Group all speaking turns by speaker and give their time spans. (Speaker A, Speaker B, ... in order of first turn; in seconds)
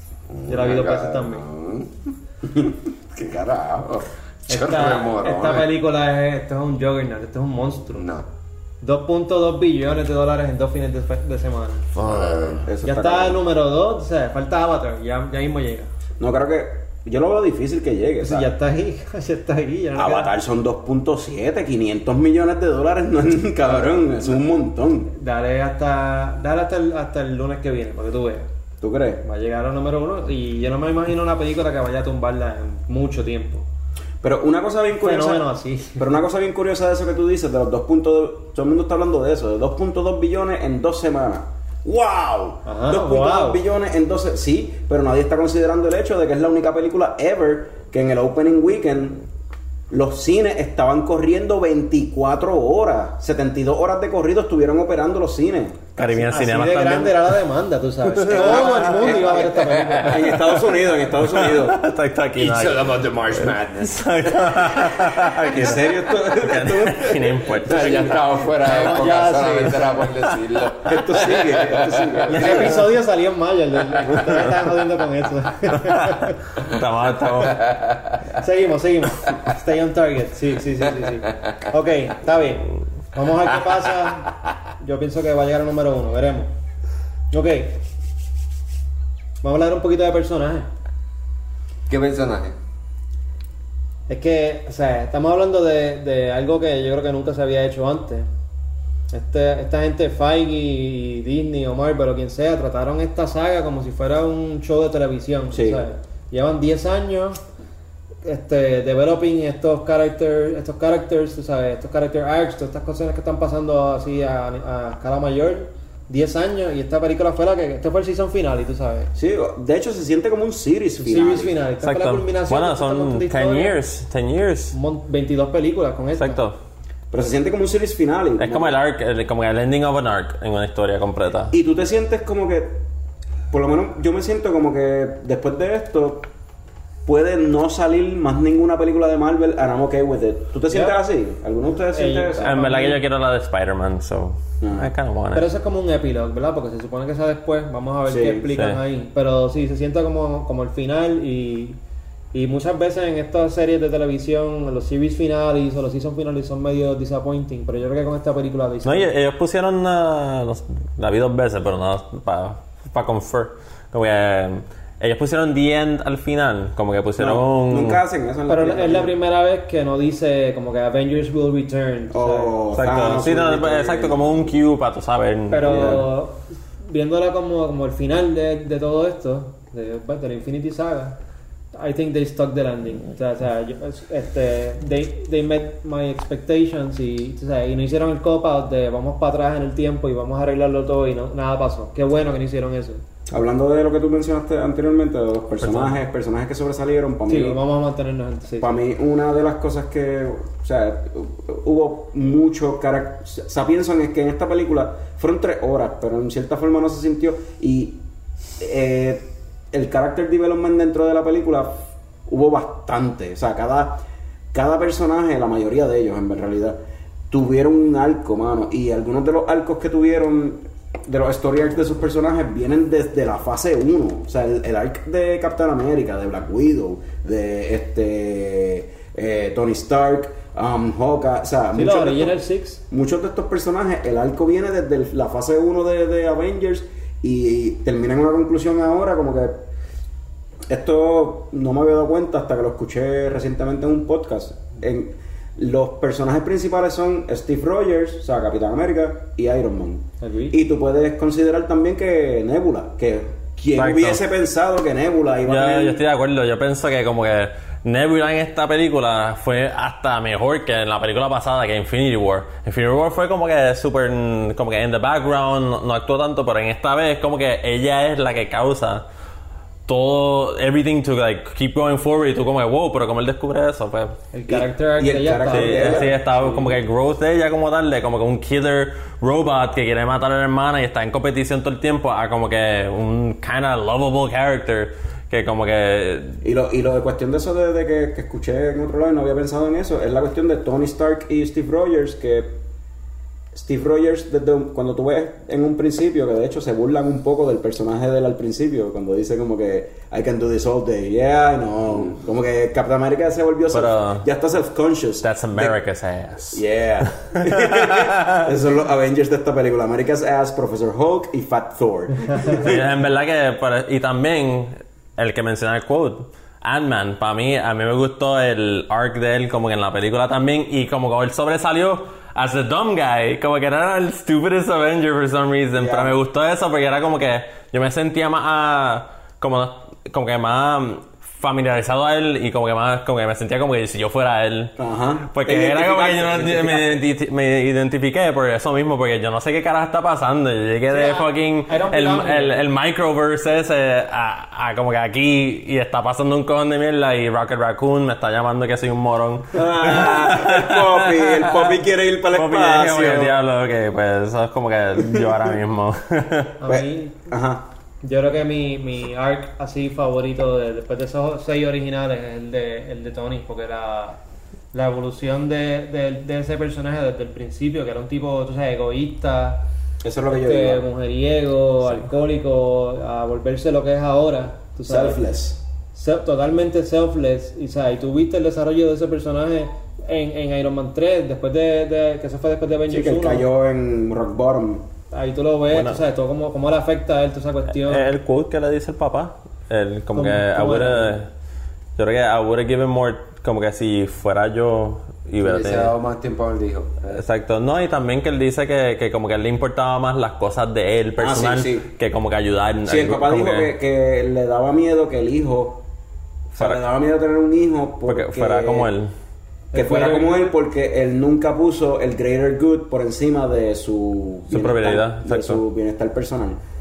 Speaker A: 0.3-1.9, 2.6-5.7, 7.9-8.3, 12.0-12.7, 58.2-60.2, 62.4-65.3, 67.6-72.5, 77.4-78.0, 91.9-92.6, 395.4-397.2
Speaker B: 0.5-1.4, 4.5-8.1, 8.8-11.9, 12.8-15.9, 18.2-20.4, 25.1-28.5, 29.2-33.7, 35.0-36.0, 42.6-43.6, 56.0-60.3, 68.6-70.0, 72.3-76.4, 78.4-86.5, 87.3-87.8, 89.4-90.7, 94.1-98.3, 99.1-107.4, 108.2-119.1, 121.0-123.8, 124.7-126.4, 140.7-141.0, 141.9-143.0, 145.3-151.8, 152.3-159.1, 168.5-172.6, 175.5-181.2, 181.7-193.0, 197.3-198.7, 231.7-232.8, 250.2-250.6, 274.3-276.2, 340.9-342.6, 356.6-357.3, 358.0-364.2, 364.7-369.6, 370.3-375.2, 375.9-383.4, 385.1-388.1, 390.1-391.2, 409.7-410.6
Speaker C: 12.6-13.4, 16.2-18.5, 19.9-25.1, 28.8-29.2, 34.2-35.4, 36.0-49.2, 49.9-55.9, 58.3-59.5, 60.0-61.8, 65.5-68.0, 70.8-72.8, 105.5-105.8, 119.1-121.6, 127.1-128.8, 131.5-132.8, 133.5-136.3, 137.1-142.5, 144.6-144.9, 148.1-148.5, 167.2-169.1, 172.1-174.6, 175.6-176.0, 193.3-197.6, 198.6-208.0, 208.6-214.0, 214.5-216.8, 217.3-232.4, 232.9-239.6, 240.7-256.0, 274.5-276.8, 286.4-292.6, 293.5-305.8, 306.5-312.8, 325.8-326.1, 334.8-337.0, 349.5-353.4, 356.7-357.6, 370.0-370.8, 374.9-375.6, 382.9-384.9, 401.2-401.9, 402.9-405.8, 406.5-408.9, 409.7-416.6
Speaker D: 56.0-57.4, 58.2-59.2, 61.1-68.2, 72.3-72.7, 75.8-77.6, 121.8-124.8, 126.2-126.6, 128.4-131.5, 142.4-145.5, 148.5-148.8, 158.8-168.0, 172.7-176.1, 253.8-254.2, 255.5-269.0, 269.9-274.1, 275.5-286.4, 303.7-304.3, 305.2-306.6, 307.4-308.4, 312.6-334.8, 335.3-356.5, 385.7-386.0, 387.7-391.3, 392.0-395.9, 397.1-403.7, 408.1-409.1, 414.5-415.6